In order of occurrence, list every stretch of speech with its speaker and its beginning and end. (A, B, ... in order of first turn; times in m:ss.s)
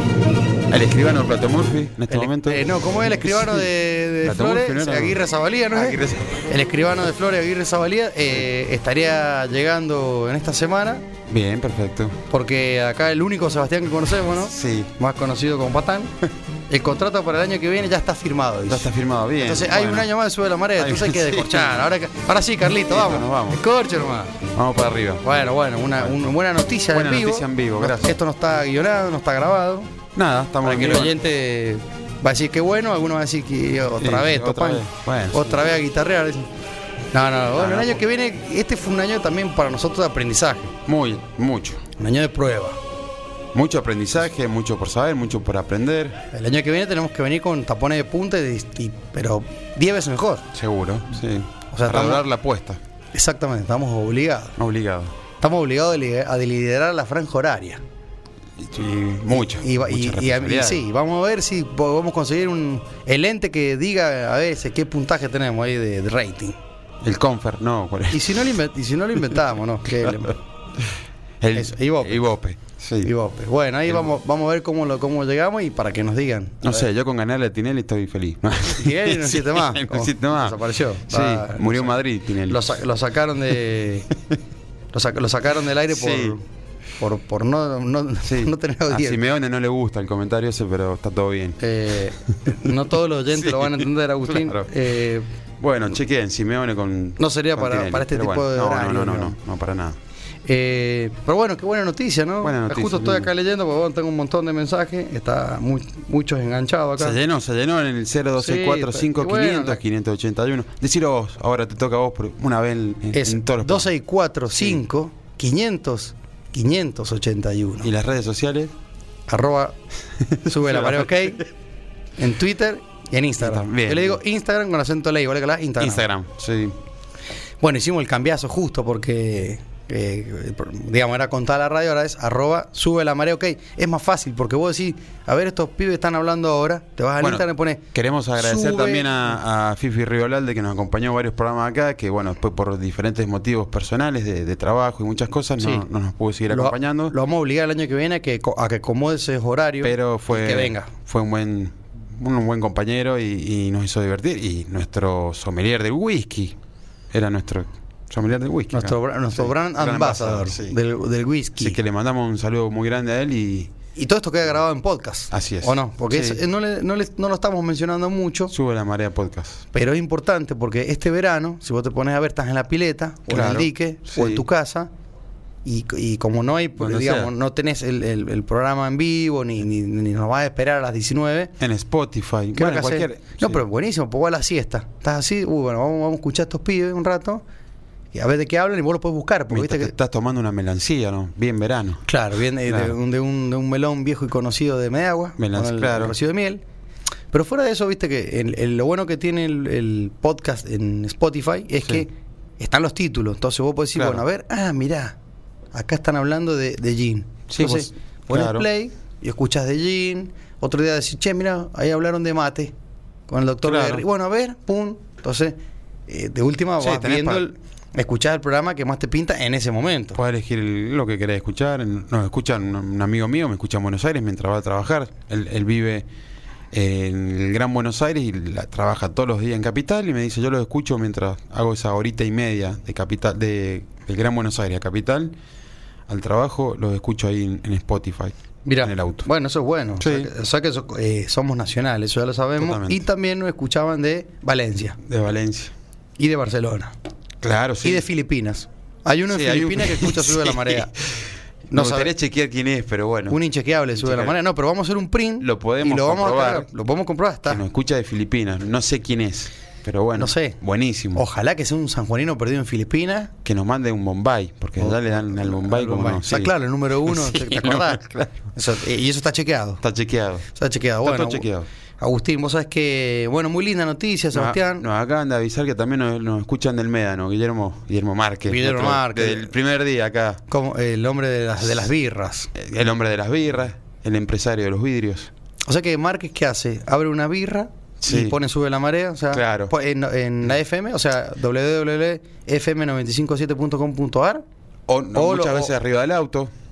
0:00.7-0:03.7 A
0:02.1-0:11.1 B
0:04.2-0:05.2 A
0:05.7-0:06.5 A
0:11.3-0:12.2 A
0:12.3-0:16.1 B
0:14.4-0:14.9 A
0:16.7-0:18.9 B
0:18.7-0:20.1 A
0:19.4-0:24.4 B
0:20.8-0:21.8 A
0:22.9-0:23.6 A
0:24.5-0:25.4 A
0:25.2-0:29.9 B
0:26.0-0:26.3 A
0:26.9-0:28.2 A
0:30.2-0:31.2 A
0:30.6-0:36.5 B
0:34.0-0:35.7 A
0:37.1-0:40.8 B
0:37.6-0:38.0 A
0:40.9-0:41.8 A
0:42.0-0:42.8 B
0:43.5-0:46.2 A
0:46.3-0:50.5 B
0:50.5-0:52.8 A
0:51.7-0:52.2 B
0:53.1-0:54.6 B
0:54.6-0:55.2 A
0:55.4-0:57.8 B
0:58.6-1:00.8 A
0:59.3-1:06.6 B
1:07.0-1:08.4 A
1:08.1-1:10.4 B
1:11.4-1:13.1 A
1:11.6-1:12.2 B
1:13.0-1:16.8 B
1:16.6-1:22.7 A
1:18.8-1:22.0 B
1:22.5-1:24.1 B
1:24.9-1:26.4 B
1:25.9-1:26.4 A
1:27.0-1:29.2 B
1:28.2-1:31.6 A
1:31.6-1:35.3 B
1:33.3-1:34.7 A
1:35.6-1:40.0 A
1:37.2-1:39.4 B
1:40.4-1:47.2 B
1:42.4-1:43.3 A
1:47.0-1:53.9 A
1:48.4-1:49.8 B
1:53.1-1:57.9 B
1:54.5-1:54.8 A
1:57.8-1:58.7 A
1:59.3-1:59.8 B
2:00.2-2:01.3 A
2:00.4-2:01.5 B
2:02.2-2:06.1 B
2:03.4-2:04.2 A
2:05.8-2:06.8 A
2:07.6-2:17.8 B
2:17.2-2:27.1 A
2:18.4-2:19.1 B
2:25.6-2:25.9 B
2:26.5-2:30.9 B
2:29.8-2:36.6 A
2:37.1-2:40.8 A
2:38.7-2:41.8 B
2:41.6-2:43.7 A
2:44.0-2:48.5 B
2:45.3-2:46.4 A
2:48.5-2:49.6 A
2:49.7-2:54.9 B
2:53.3-2:54.4 A
2:55.6-3:01.5 B
2:56.8-2:57.3 A
3:01.6-3:03.6 A
3:02.6-3:07.4 B
3:08.1-3:09.9 B
3:09.5-3:12.0 A
3:12.1-3:16.6 B
3:12.7-3:13.0 A
3:15.4-3:16.2 A
3:17.3-3:25.2 B
3:24.0-3:24.2 A
3:25.7-3:32.7 B
3:27.5-3:28.7 A
3:33.3-3:40.2 B
3:33.6-3:34.0 A
3:36.8-3:37.5 A
3:40.2-3:46.1 A
3:46.7-3:55.4 A
3:56.1-3:59.3 A
3:58.6-4:05.0 B
4:00.0-4:00.3 A
4:02.6-4:03.0 A
4:05.0-4:05.7 A
4:06.2-4:06.9 B
4:07.4-4:08.1 A
4:07.8-4:10.9 B
4:09.3-4:13.4 A
4:11.7-4:12.1 B
4:13.3-4:17.6 B
4:13.9-4:14.4 A
4:15.4-4:16.7 A
4:17.5-4:21.2 A
4:20.2-4:20.6 B
4:21.1-4:23.3 B
4:23.4-4:26.5 A
4:24.8-4:29.8 B
4:27.0-4:28.4 A
4:29.8-4:30.5 A
4:30.5-4:31.5 B
4:31.0-4:31.7 A
4:32.0-4:34.9 B
4:34.3-4:40.4 A
4:38.5-4:39.5 B
4:40.5-4:42.5 B
4:42.6-4:45.3 A
4:45.6-4:54.4 B
4:48.0-4:48.4 A
4:49.3-4:49.7 A
4:54.9-4:56.5 A
4:55.1-4:55.7 B